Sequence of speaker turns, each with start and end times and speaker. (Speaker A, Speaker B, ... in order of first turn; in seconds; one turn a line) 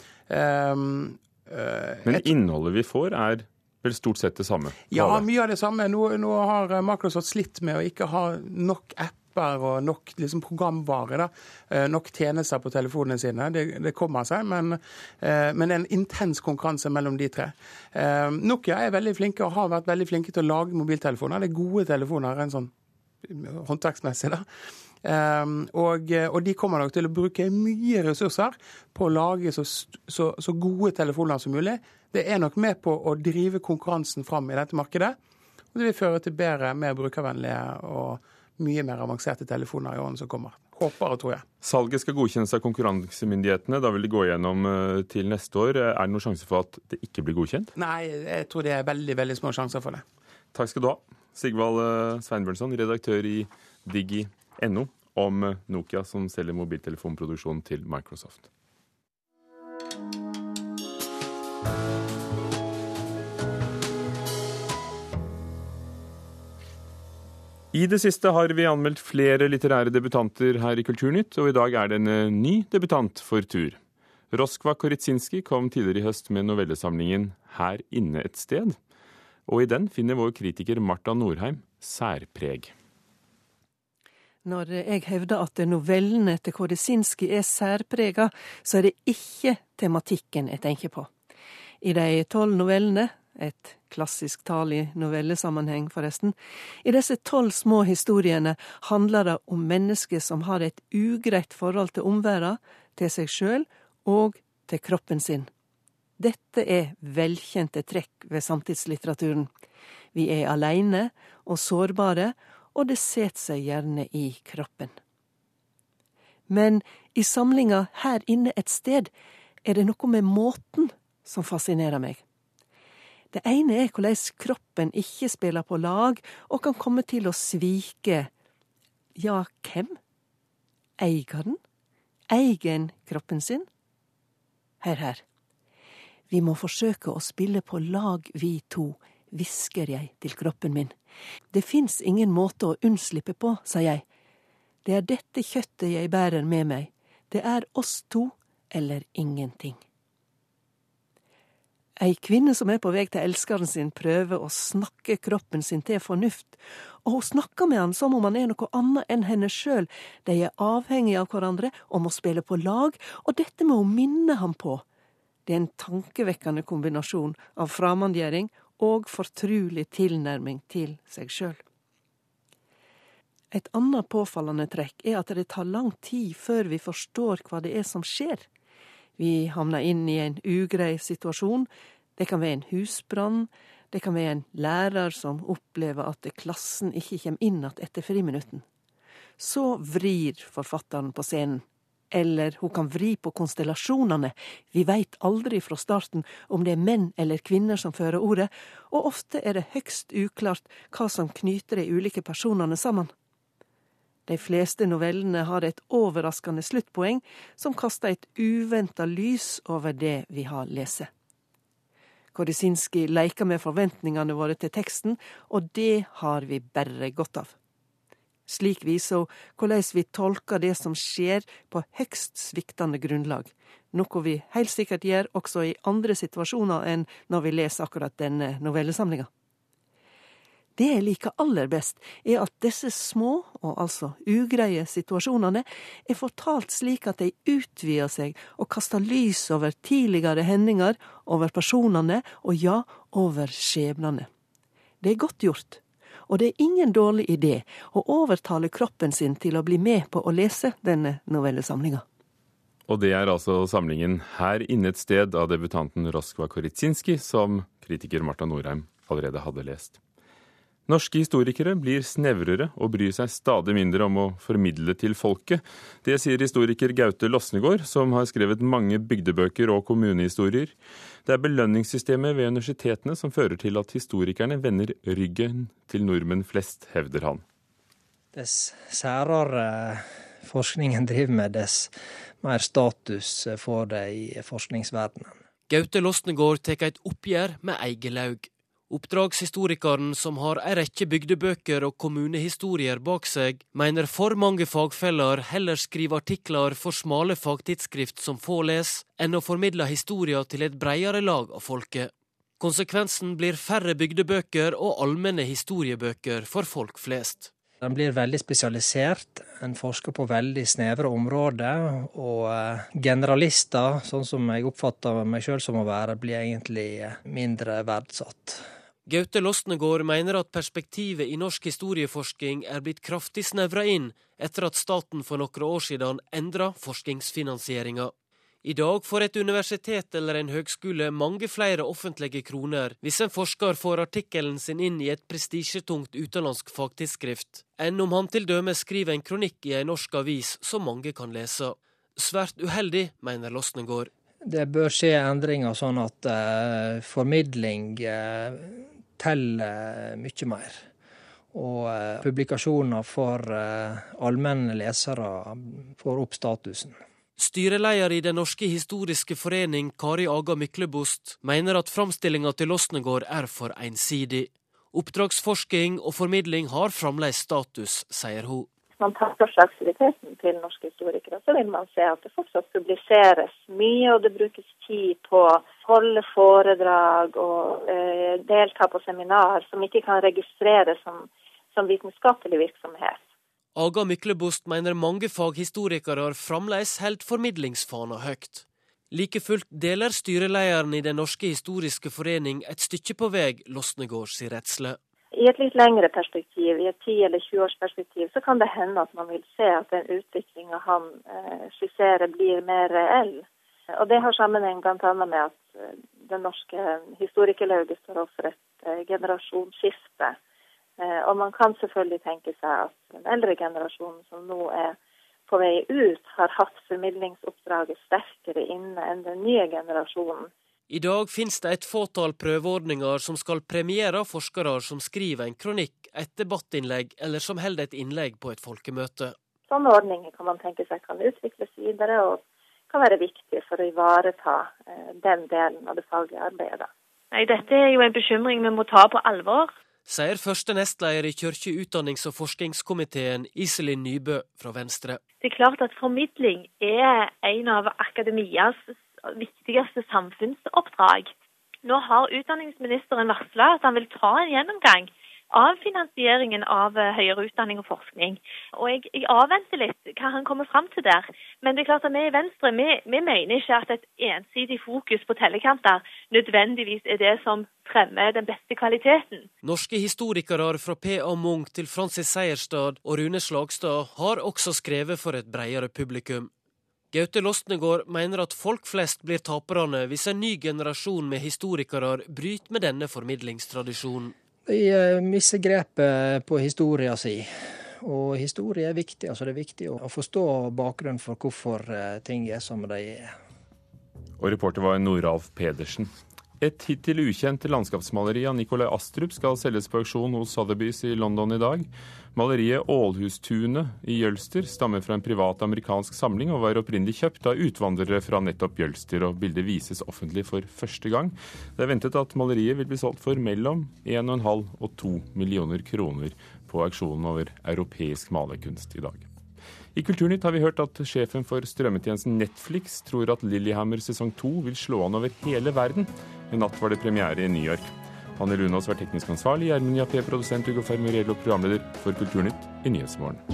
Speaker A: 0.3-2.3
Speaker B: 2.0-5.3
Speaker A: 4.9-22.7
Speaker A: 23.2-24.4
Speaker A: 25.0-35.2
Speaker A: 35.7-41.4
Speaker B: 41.6-47.7
Speaker A: 47.8-50.0
Speaker B: 50.5-58.5
Speaker B: 67.7-73.8
Speaker B: 74.3-78.8
Speaker B: 79.5-82.7
Speaker C: 84.4-91.1
Speaker C: 91.8-105.5
Speaker C: 106.2-109.5
Speaker C: 110.1-115.0
Speaker C: 116.5-119.1
Speaker C: 119.6-122.2
Speaker C: 123.3-128.3
Speaker C: 129.2-130.0
Speaker C: 131.0-131.6
Speaker C: 132.3-133.7
Speaker C: 134.8-135.2
Speaker C: 136.3-140.9
Speaker C: 141.5-144.0
Speaker C: 144.8-149.8
Speaker C: 152.0-164.8
Speaker C: 165.5-171.6
Speaker C: 173.5-178.4
Speaker C: 179.2-188.6
Speaker C: 189.4-203.1
Speaker C: 204.3-211.1
Speaker C: 212.3-217.5
Speaker C: 218.5-229.3
Speaker C: 230.8-244.3
Speaker C: 245.0-252.0
Speaker B: 252.9-260.0
Speaker B: 260.9-270.7
Speaker B: 271.2-277.4
Speaker D: 278.3-285.4
Speaker E: 285.7-307.5
Speaker D: 307.8-318.7
Speaker E: 319.1-328.1
Speaker E: 328.6-344.1
Speaker D: 344.4-350.8
Speaker D: 351.5-357.0
Speaker E: 357.4-368.7
Speaker F: 369.0-383.2
Speaker E: 383.7-395.0
Speaker F: 395.3-403.4
Speaker F: 404.0-410.4
Speaker F: 411.0-415.0
Speaker F: 415.5-420.5
Speaker E: 420.9-429.3
Speaker F: 429.7-436.9
Speaker G: 437.3-439.7
Speaker E: 440.1-445.2
Speaker G: 445.4-451.3
Speaker G: 451.8-469.5
Speaker E: 469.6-476.5
Speaker E: 477.1-484.3
Speaker D: 484.7-493.3
Speaker B: 494.4-519.3
Speaker B: 519.9-533.4